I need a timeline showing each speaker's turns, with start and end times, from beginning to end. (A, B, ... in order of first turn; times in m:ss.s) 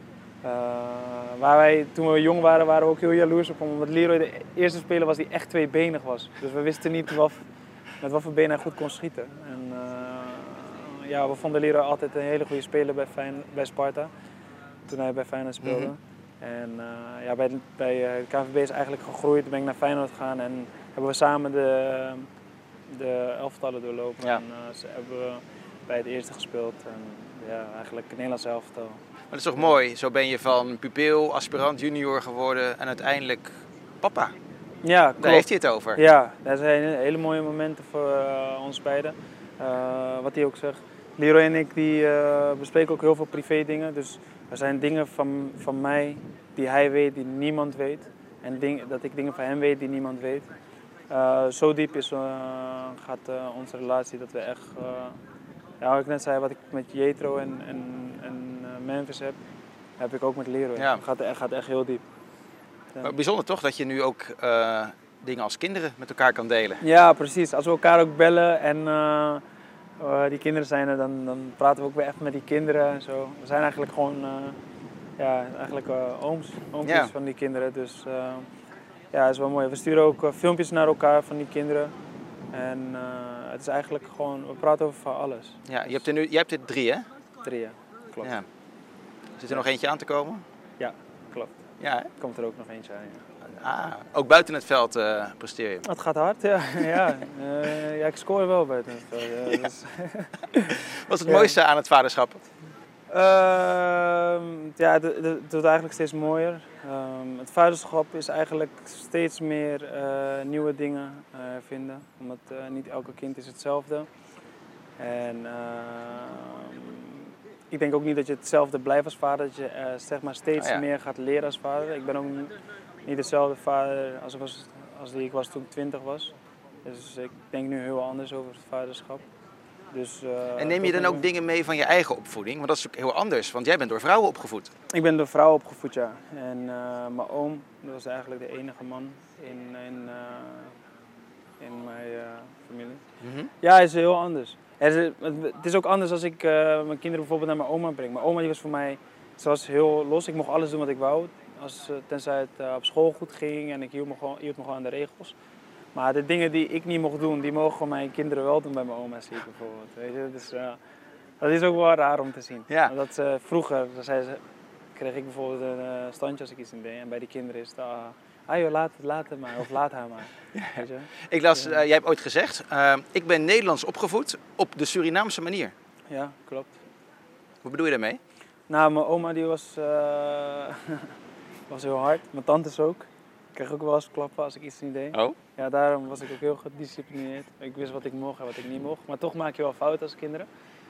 0:00.4-0:07.4 A
0:08.0-0:14.1 A
0:14.9-0:22.3 A
0:15.6-0:15.9 B
0:22.9-0:29.0 A
0:29.3-0:34.3 B
0:34.8-0:50.5 A
0:35.2-0:36.0 B
0:51.1-0:55.2 A
0:55.8-0:59.4 A
1:00.0-1:02.0 A
1:03.0-1:06.8 B
1:06.8-1:09.4 A
1:10.0-1:14.6 A
1:15.2-1:18.5 A
1:16.8-1:17.1 B
1:19.1-1:21.9 A
1:22.5-1:26.0 A
1:25.7-1:27.1 B
1:27.4-1:28.3 A
1:29.4-1:30.4 B
1:30.8-1:31.6 A
1:31.8-1:32.1 B
1:32.2-1:33.2 A
1:33.5-1:35.8 B
1:35.8-1:41.6 A
1:41.0-1:42.4 B
1:43.1-1:54.1 A
1:55.0-1:57.1 A
1:57.7-2:09.2 A
2:00.6-2:00.8 B
2:09.9-2:11.3 A
2:10.6-2:14.7 B
2:14.9-2:20.8 A
2:21.6-2:23.0 A
2:23.2-2:23.5 B
2:23.6-2:35.3 A
2:36.0-2:40.8 A
2:41.4-2:44.4 A
2:45.0-2:51.8 A
2:50.6-2:55.7 B
2:56.1-2:56.8 A
2:57.6-2:58.2 B
2:58.7-3:01.1 A
3:01.7-3:10.5 A